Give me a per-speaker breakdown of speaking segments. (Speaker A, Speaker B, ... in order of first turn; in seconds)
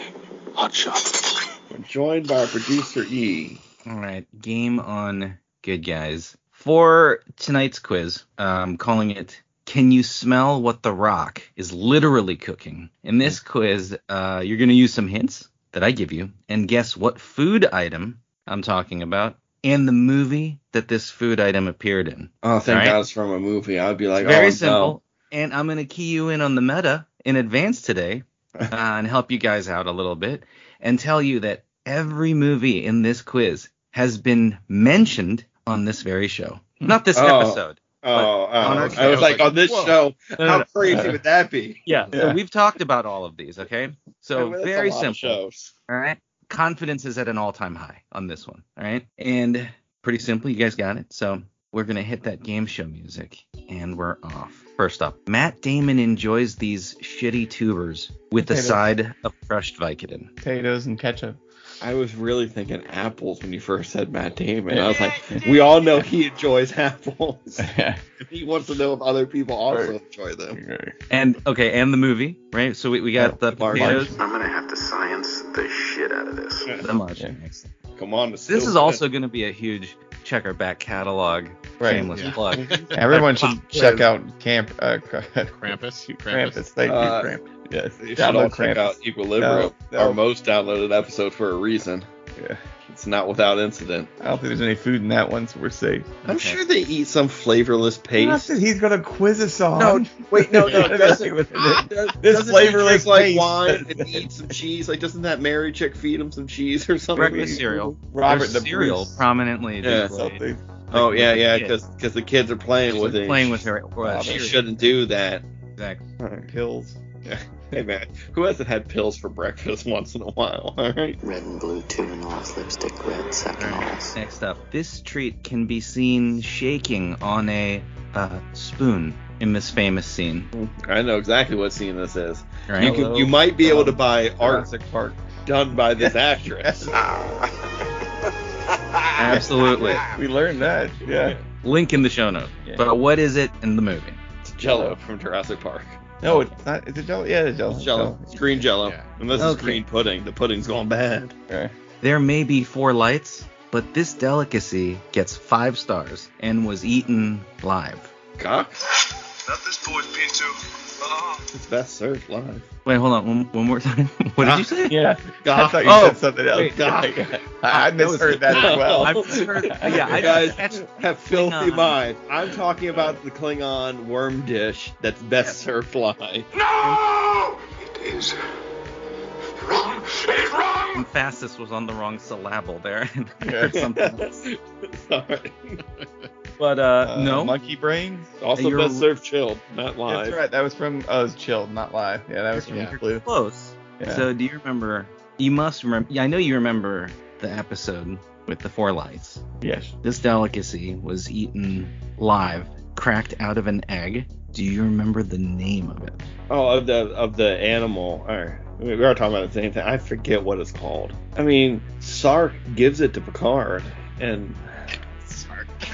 Speaker A: 0.6-1.4, 137.1-137.4, 159.5-161.4, 176.6-178.4, 179.6-181.1
Speaker B: 1.7-3.6, 22.4-25.0, 37.1-41.8, 44.4-45.7, 61.8-67.7, 68.2-70.6, 73.4-74.1, 78.0-79.0, 82.6-82.8, 86.8-87.3, 88.0-92.1, 92.9-94.1, 96.2-98.5, 99.8-107.6, 109.8-110.1, 110.9-113.7, 114.2-115.5, 116.2-116.5, 117.2-121.2, 130.5-134.7, 135.4-137.0, 141.1-141.4, 144.4-146.0, 147.7-151.3, 158.4-158.7, 161.5-162.7, 164.4-167.3, 168.5-176.5, 183.7-185.8, 188.4-190.4, 206.5-214.9
Speaker C: 3.9-23.0, 24.2-39.5, 40.4-41.1, 41.9-60.3, 71.1-74.2, 76.7-77.7, 78.5-83.2, 96.2-96.6, 107.2-110.4, 110.9-111.8, 112.9-115.0, 115.8-116.0, 123.6-130.5, 139.2-140.1, 141.6-144.2, 149.3-149.8, 152.0-158.1, 162.8-164.9, 165.8-166.8, 167.7-172.0, 180.9-184.3, 186.6-187.6, 188.6-189.1, 192.6-199.4, 200.0-206.2
Speaker D: 38.6-40.0, 82.1-84.1, 85.5-86.6, 148.8-149.1, 186.0-186.3, 192.7-193.0, 215.3-215.7
Speaker E: 40.9-41.1, 42.1-42.4, 58.4-58.8, 60.4-61.4, 64.7-65.5, 67.6-68.0, 69.7-70.0, 70.5-70.9, 73.2-74.2, 81.8-82.1, 82.9-90.2, 94.2-96.2, 98.2-104.3, 107.2-109.2, 109.9-110.6, 114.0-114.6, 116.5-117.0, 132.8-135.2, 136.0-137.0, 139.3-141.4, 144.7-145.0, 146.2-148.7, 164.9-170.5, 183.4-183.8, 187.0-188.4, 190.1-193.2, 194.0-194.3, 199.6-199.9
Speaker F: 74.2-76.6, 121.2-124.1